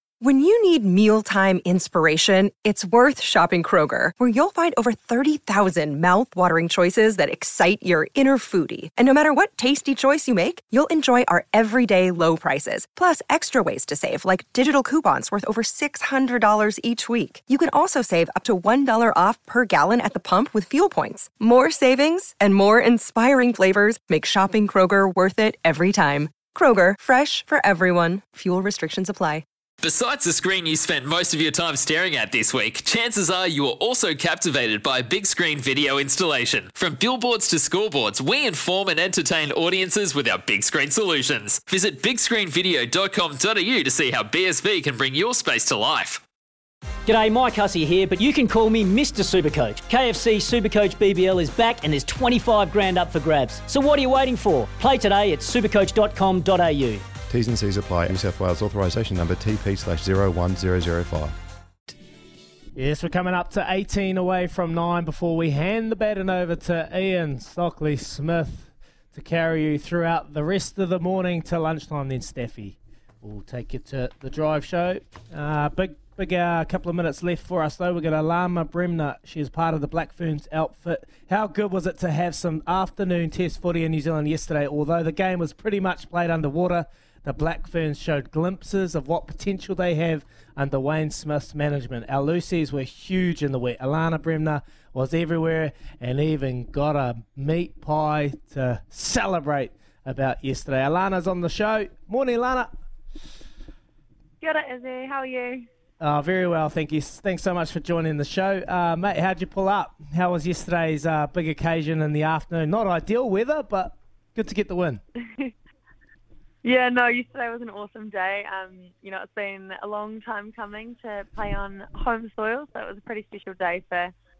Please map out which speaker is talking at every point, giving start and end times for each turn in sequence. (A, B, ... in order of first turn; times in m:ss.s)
0:00.2-0:29.4 A
0:29.8-0:46.2 B
0:47.2-0:57.0 C
0:57.3-1:01.4 D
1:02.8-1:42.7 E
1:44.4-1:45.6 F
1:46.0-1:55.0 E
1:56.6-2:04.1 F